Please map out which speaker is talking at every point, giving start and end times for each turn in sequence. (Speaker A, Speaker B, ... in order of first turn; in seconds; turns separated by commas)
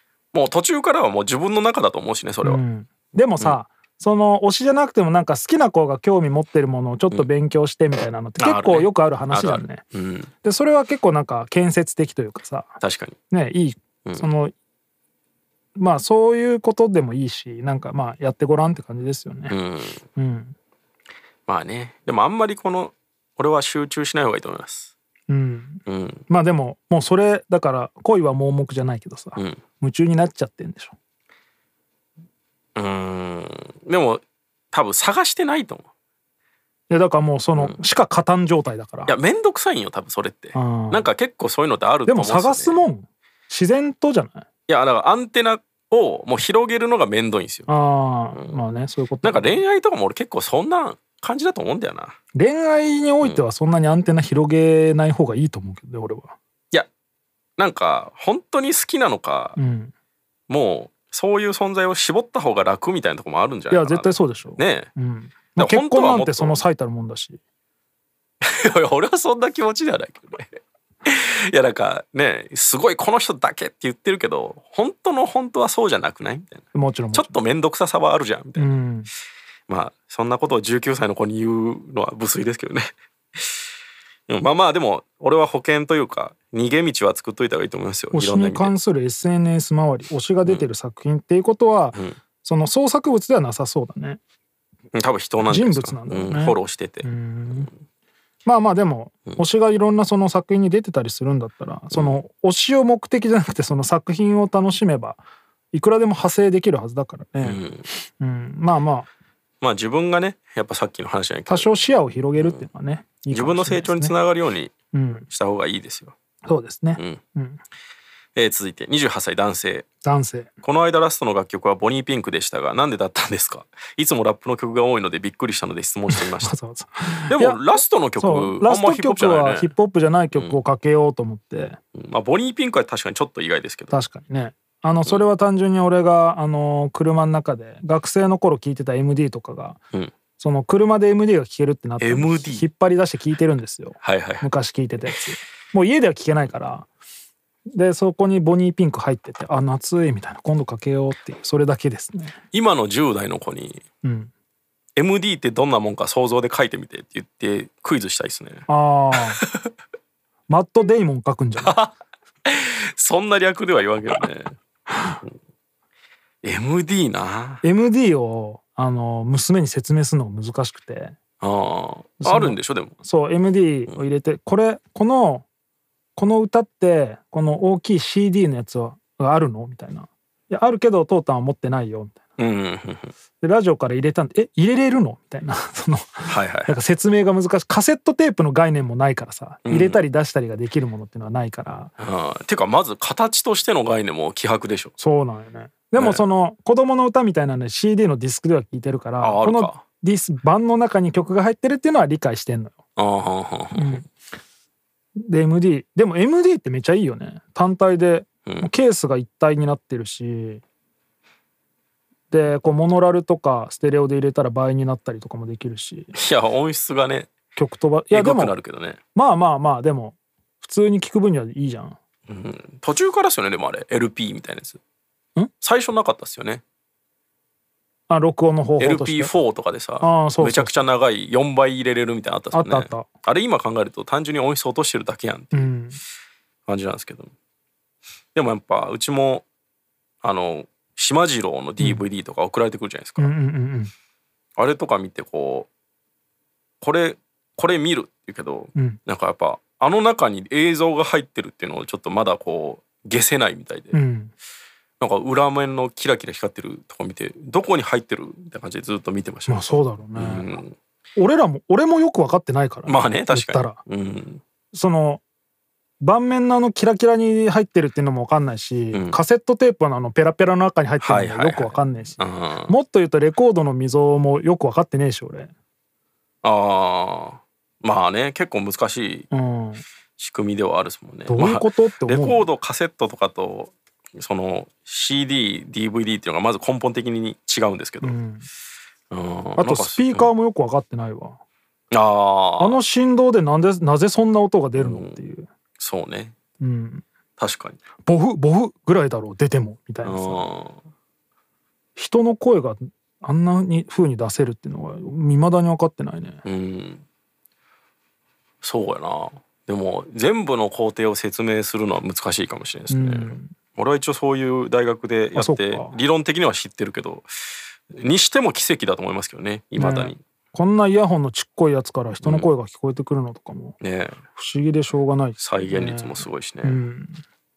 Speaker A: 0.3-2.6, Speaker B: 2.4-9.8, Speaker A: 8.4-10.3, Speaker B: 10.4-12.7, Speaker A: 12.8-13.2, Speaker B: 13.3-14.5, Speaker B: 15.8-19.6, Speaker A: 19.5-20.0, Speaker B: 20.1-20.5, Speaker A: 21.5-24.9, Speaker B: 25.3-30.9, Speaker A: 25.9-26.2, Speaker A: 29.4-29.6, Speaker A: 32.8-35.9, Speaker B: 36.9-39.2, Speaker A: 39.1-42.8, Speaker B: 40.5-41.1, Speaker B: 42.1-44.5, Speaker A: 44.7-47.7, Speaker B: 47.7-49.6, Speaker A: 48.3-48.6, Speaker A: 49.2-52.2, Speaker B: 52.3-56.3, Speaker A: 57.6-59.6, Speaker B: 59.5-59.9, Speaker A: 60.5-64.9, Speaker B: 63.7-67.4, Speaker A: 65.5-66.5, Speaker A: 68.4-78.7, Speaker B: 76.7-77.4, Speaker B: 78.5-79.1, Speaker A: 79.7-83.7, Speaker A: 84.3-88.7, Speaker B: 88.1-94.2, Speaker A: 94.9-97.7, Speaker B: 95.4-97.7, Speaker B: 98.4-105.2, Speaker A: 101.9-102.2, Speaker B: 105.7-109.1, Speaker A: 107.4-107.9, Speaker A: 109.6-111.7, Speaker B: 111.5-114.1, Speaker A: 112.4-112.7, Speaker A: 113.3-114.7, Speaker B: 114.9-115.3, Speaker A: 115.3-116.1, Speaker B: 116.4-117.6, Speaker A: 118.3-119.9, Speaker B: 120.0-120.5, Speaker A: 120.6-126.5, Speaker B: 126.1-131.8, Speaker A: 127.3-129.7, Speaker A: 131.9-133.9, Speaker B: 133.9-139.8, Speaker B: 140.4-146.9, Speaker A: 142.0-142.6, Speaker A: 144.0-144.5, Speaker B: 147.7-152.3, Speaker A: 152.5-153.8, Speaker B: 154.0-154.3, Speaker A: 154.9-158.7, Speaker B: 158.7-159.4, Speaker A: 159.3-159.7, Speaker B: 160.5-161.8, Speaker A: 161.6-161.9, Speaker A: 162.4-164.6, Speaker A: 166.4-167.6, Speaker B: 167.6-171.2, Speaker A: 171.4-172.9, Speaker B: 172.2-175.4, Speaker B: 176.2-182.2, Speaker A: 182.4-183.1, Speaker B: 183.4-191.9, Speaker A: 186.2-186.8, Speaker A: 189.7-190.0, Speaker A: 192.0-194.9, Speaker B: 195.0-202.8, Speaker A: 195.9-196.2, Speaker A: 199.2-199.8, Speaker A: 202.9-204.0, Speaker B: 203.7-204.1, Speaker B: 205.2-210.6, Speaker B: 212.3-216.1, Speaker A: 216.1-217.3, Speaker B: 217.5-218.6, Speaker A: 218.1-219.0, Speaker B: 219.1-222.0, Speaker A: 222.3-224.8, Speaker A: 225.6-226.6, Speaker B: 228.1-229.3, Speaker A: 228.8-235.7, Speaker B: 230.0-230.8, Speaker B: 232.5-233.1, Speaker B: 235.5-236.0, Speaker A: 236.7-237.3, Speaker A: 238.3-239.4, Speaker A: 240.2-243.3, Speaker B: 241.8-242.0, Speaker B: 243.2-243.9, Speaker A: 244.6-245.7, Speaker A: 246.8-253.9, Speaker B: 253.9-254.3, Speaker A: 255.0-260.7, Speaker B: 259.5-260.5, Speaker B: 261.1-263.8, Speaker A: 262.9-264.4, Speaker B: 264.7-265.2, Speaker B: 266.0-275.5, Speaker A: 268.9-269.2, Speaker A: 271.0-272.7, Speaker A: 276.4-279.3, Speaker B: 279.3-279.8, Speaker A: 280.2-288.1, Speaker B: 281.3-282.4, Speaker B: 288.0-288.4, Speaker A: 289.1-290.3, Speaker B: 289.6-291.4, Speaker A: 291.9-292.8, Speaker B: 292.6-295.5, Speaker A: 294.8-295.2, Speaker A: 295.8-296.3, Speaker B: 296.6-297.0, Speaker A: 297.4-297.8, Speaker B: 298.0-300.5, Speaker A: 300.0-300.8, Speaker B: 301.9-306.4, Speaker A: 306.4-307.0, Speaker A: 308.6-317.3, Speaker B: 312.9-313.5, Speaker B: 315.3-316.0, Speaker A: 317.9-320.2, Speaker B: 319.8-323.8, Speaker A: 322.2-322.5, Speaker A: 323.8-324.2, Speaker B: 324.3-327.2, Speaker A: 325.4-326.8